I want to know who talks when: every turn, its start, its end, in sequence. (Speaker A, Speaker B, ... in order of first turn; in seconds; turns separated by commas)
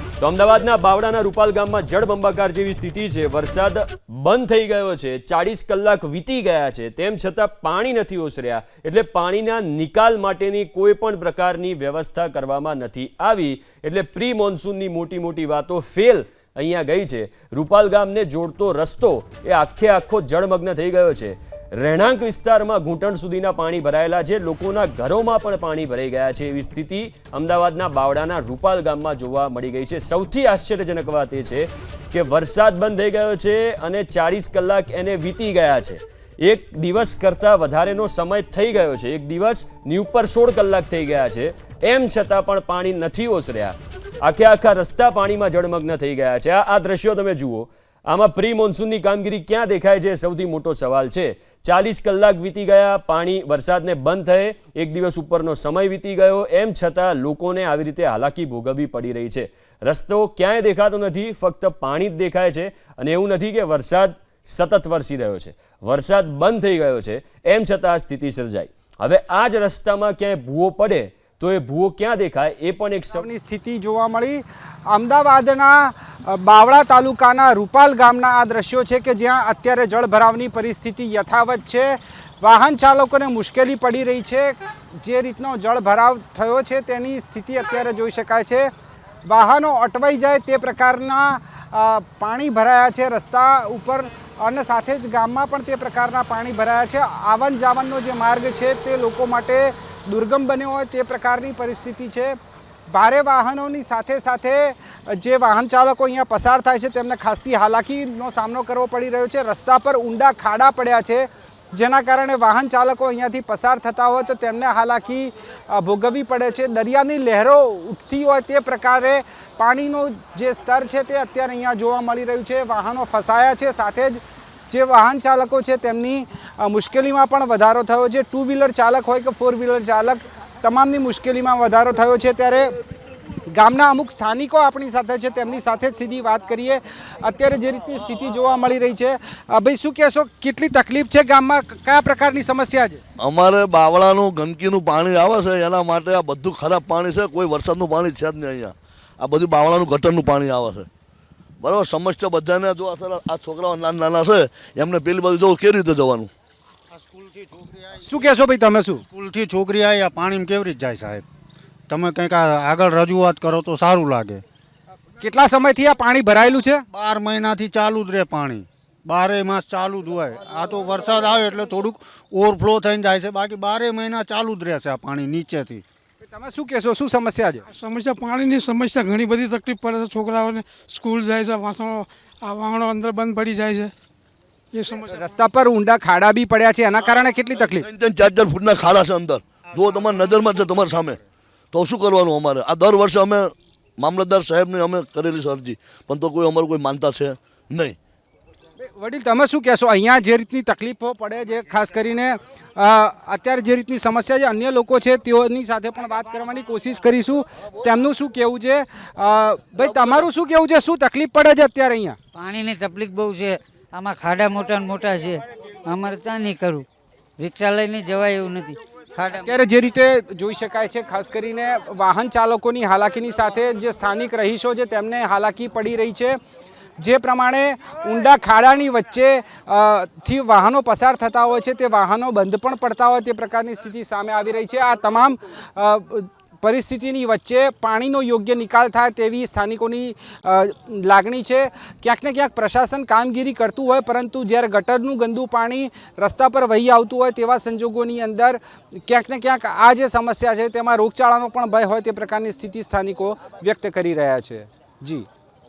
Speaker A: 0.2-73.3, Speaker B: 73.1-88.7, Speaker B: 89.3-102.4, Speaker B: 102.9-132.7, Speaker B: 133.5-143.0, Speaker C: 143.2-150.9, Speaker C: 151.6-156.3, Speaker D: 156.9-158.2, Speaker B: 158.0-159.0, Speaker D: 159.1-161.2, Speaker D: 161.9-164.4, Speaker B: 165.2-166.8, Speaker D: 166.9-175.8, Speaker B: 176.2-177.7, Speaker E: 177.8-183.9, Speaker E: 184.8-185.0, Speaker B: 185.1-187.9, Speaker C: 187.2-191.2, Speaker D: 189.7-190.8, Speaker C: 191.7-198.0, Speaker B: 198.8-212.2, Speaker F: 212.3-216.9, Speaker F: 217.4-219.6, Speaker B: 219.4-226.4, Speaker B: 227.0-255.3